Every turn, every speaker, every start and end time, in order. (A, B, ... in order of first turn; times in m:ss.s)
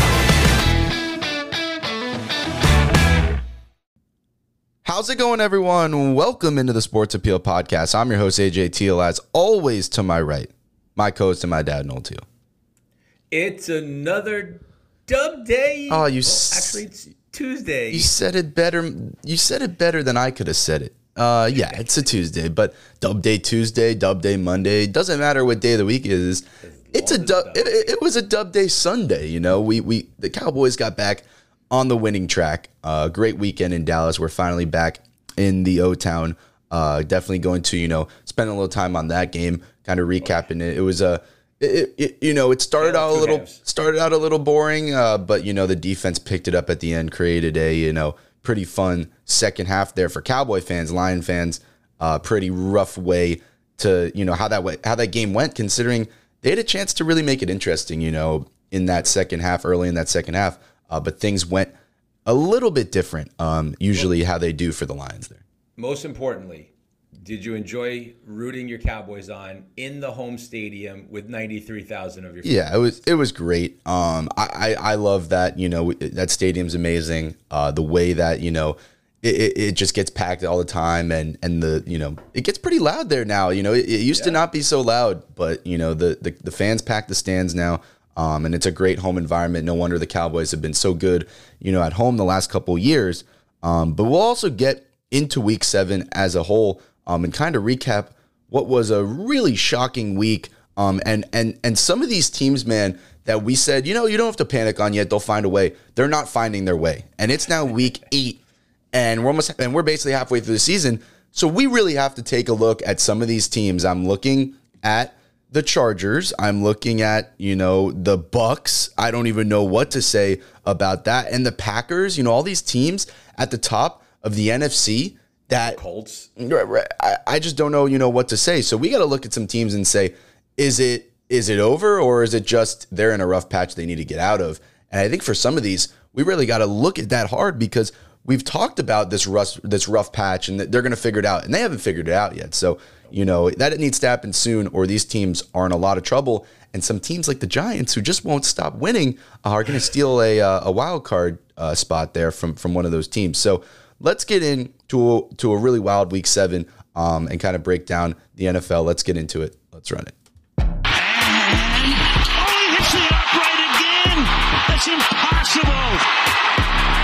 0:04.8-0:12.2 A
0:13.3-0:18.1 B
0:15.9-0:16.8 A
0:17.9-1:01.7 A
0:21.5-0:21.9 B
0:26.6-0:28.0 B
0:42.8-0:43.6 B
1:02.3-1:05.4 A
1:05.8-1:13.0 B
1:12.4-1:48.4 A
1:48.9-2:05.8 A
2:05.6-2:06.3 B
2:06.4-2:40.2 A
2:40.9-2:46.1 C